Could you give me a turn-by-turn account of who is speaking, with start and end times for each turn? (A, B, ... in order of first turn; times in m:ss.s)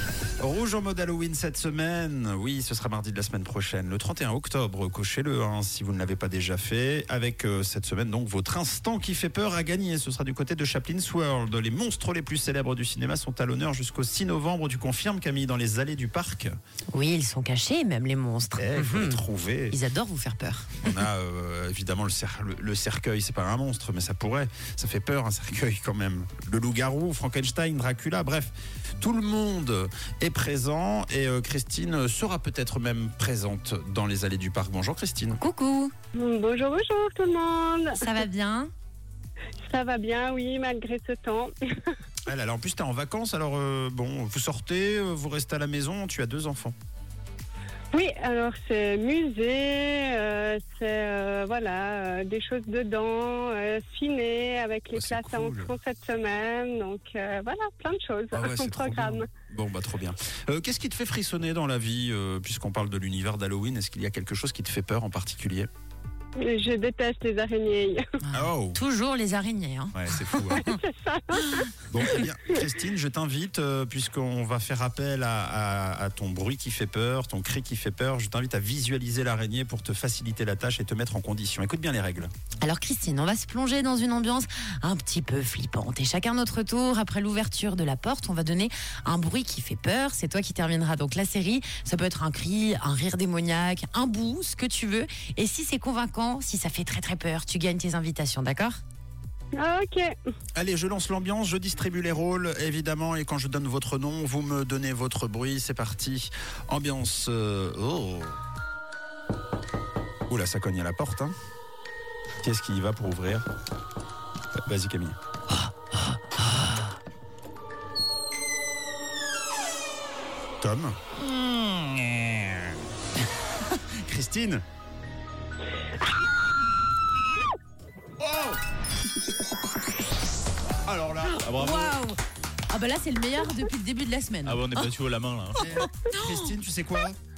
0:00.4-0:16.5 A
0:16.9-0:21.0 B
0:18.6-0:19.8 A
0:20.8-0:35.4 A
0:35.4-0:35.9 B
0:36.2-0:38.0 C
0:38.0-0:38.7 B
0:39.7-0:41.9 C
0:42.3-0:46.8 A
0:47.9-0:59.3 C
0:55.0-0:55.8 A
0:58.3-1:05.7 A
1:06.4-1:08.0 C
1:08.3-1:10.8 B
1:08.3-1:08.8 A
1:10.0-1:10.7 A
1:10.5-1:11.7 C
1:11.9-1:22.3 A
1:22.6-1:38.8 B
1:39.6-1:40.2 C
1:40.6-1:48.4 A
1:50.3-1:51.3 A
1:52.4-1:53.5 A
1:54.7-1:55.2 A
2:00.6-2:01.0 A
2:01.2-2:02.5 D
2:03.7-2:04.6 A
2:08.2-2:08.6 A
2:10.9-2:11.5 A
2:11.4-2:12.0 D
2:11.6-2:12.2 B
2:12.7-2:14.6 B
2:14.4-2:15.7 D
2:15.6-2:17.2 A
2:15.7-2:16.5 B